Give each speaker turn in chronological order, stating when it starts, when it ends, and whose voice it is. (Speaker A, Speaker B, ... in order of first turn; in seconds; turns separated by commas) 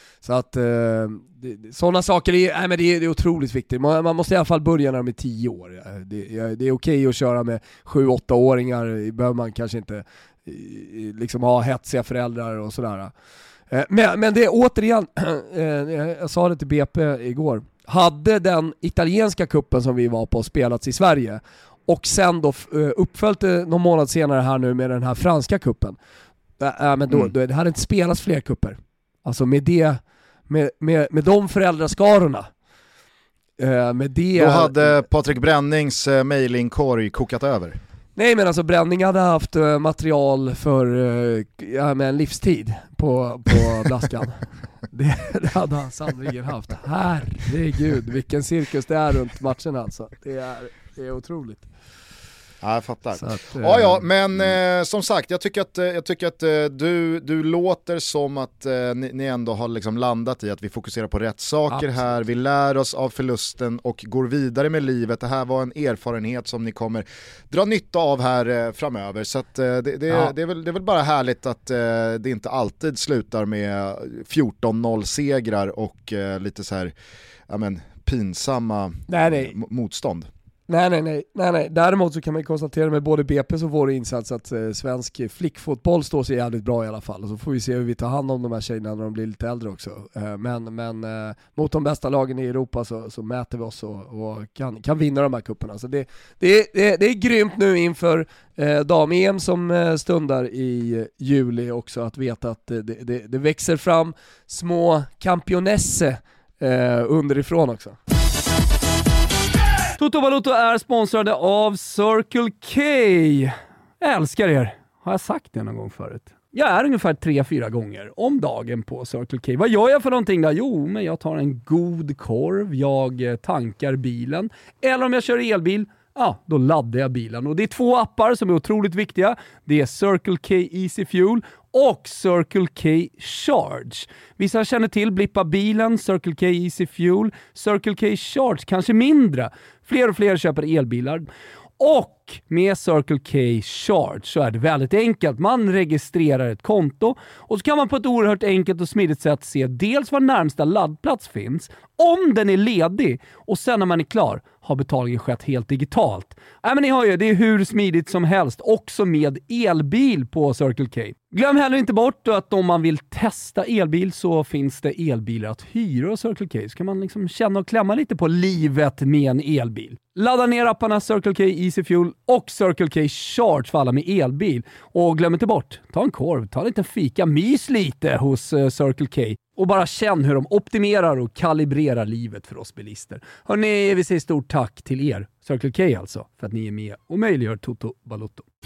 Speaker A: 0.2-13.1, Speaker A: 13.7-26.0, Speaker A: 26.6-32.5, Speaker A: 33.6-35.0, Speaker B: 34.4-37.8, Speaker A: 38.2-51.7, Speaker B: 52.6-76.9, Speaker A: 53.2-54.0, Speaker A: 61.7-62.0, Speaker B: 77.5-80.3, Speaker A: 79.1-79.6, Speaker A: 80.7-108.0, Speaker C: 110.0-141.3, Speaker C: 141.8-188.5